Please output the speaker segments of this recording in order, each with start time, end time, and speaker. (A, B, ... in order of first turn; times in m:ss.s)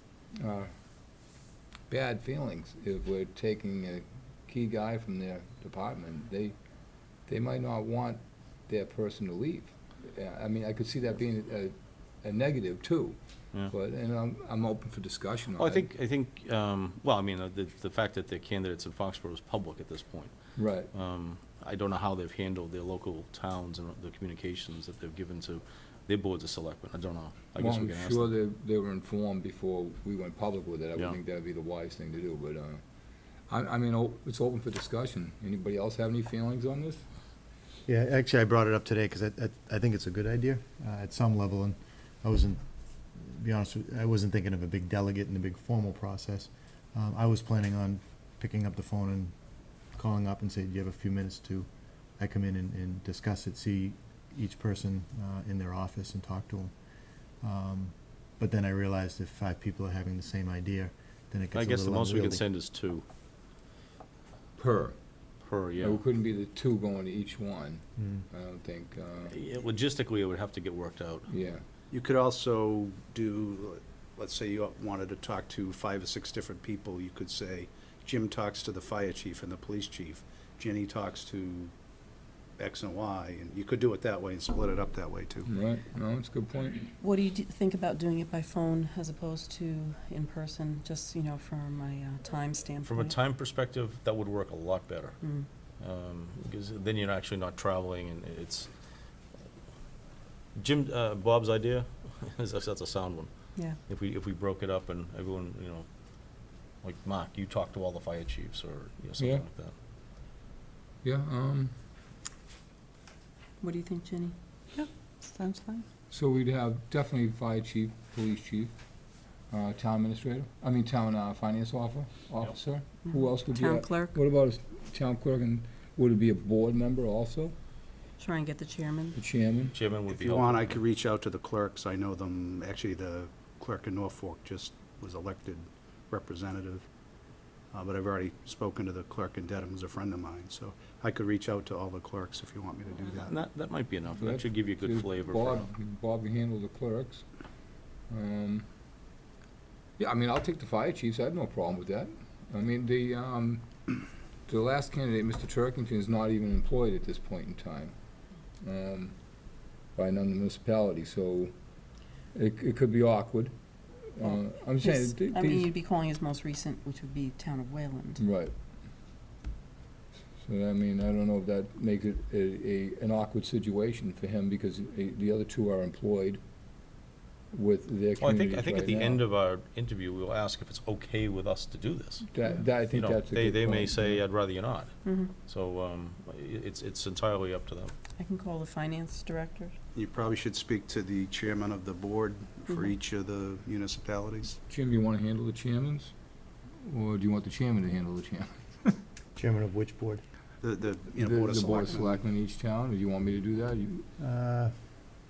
0:00.4-0:00.7 A
0:01.9-0:06.6 A
0:07.3-0:13.2 A
0:13.7-0:15.9 A
0:15.6-0:28.3 B
0:20.6-0:20.9 A
0:27.6-0:32.8 A
0:33.5-0:37.0 A
0:37.9-0:42.6 C
0:43.2-0:49.4 C
0:50.0-0:56.7 C
0:57.4-1:02.4 C
1:01.5-1:03.0 B
1:04.6-1:05.0 A
1:05.4-1:06.0 B
1:05.8-1:09.4 A
1:08.0-1:08.2 C
1:09.3-1:11.3 B
1:11.3-1:11.6 A
1:11.9-1:21.7 D
1:22.6-1:25.5 D
1:25.5-1:27.0 A
1:27.0-1:33.2 E
1:32.8-1:35.2 B
1:35.2-1:35.5 E
1:35.8-1:38.7 B
1:40.6-1:45.9 B
1:46.8-1:49.7 B
1:49.2-1:49.4 A
1:51.0-1:51.8 A
1:53.6-1:55.5 E
1:56.1-1:58.8 A
1:59.5-2:07.6 A
2:03.1-2:04.2 E
2:08.2-2:09.2 E
2:09.2-2:09.8 A
2:09.7-2:10.8 B
2:10.1-2:16.9 D
2:17.7-2:23.3 D
2:23.2-2:25.6 B
2:24.2-2:27.2 A
2:28.1-2:28.7 A
2:30.0-2:33.7 A
2:34.5-2:38.0 A
2:38.6-2:39.2 A
2:40.0-2:41.5 A
2:42.3-2:43.5 A
2:44.1-2:45.7 A
2:44.2-2:48.2 E
2:48.2-2:48.5 A
2:50.4-2:56.4 A
2:57.5-2:59.2 A
2:58.2-3:02.3 B
3:02.3-3:04.2 A
3:02.9-3:07.9 B
3:05.0-3:05.3 E
3:08.2-3:09.8 E
3:09.9-3:14.6 D
3:14.7-3:16.1 A
3:16.8-3:19.0 A
3:19.4-3:20.2 C
3:20.6-3:22.2 D
3:21.2-3:24.1 A
3:24.2-3:24.7 C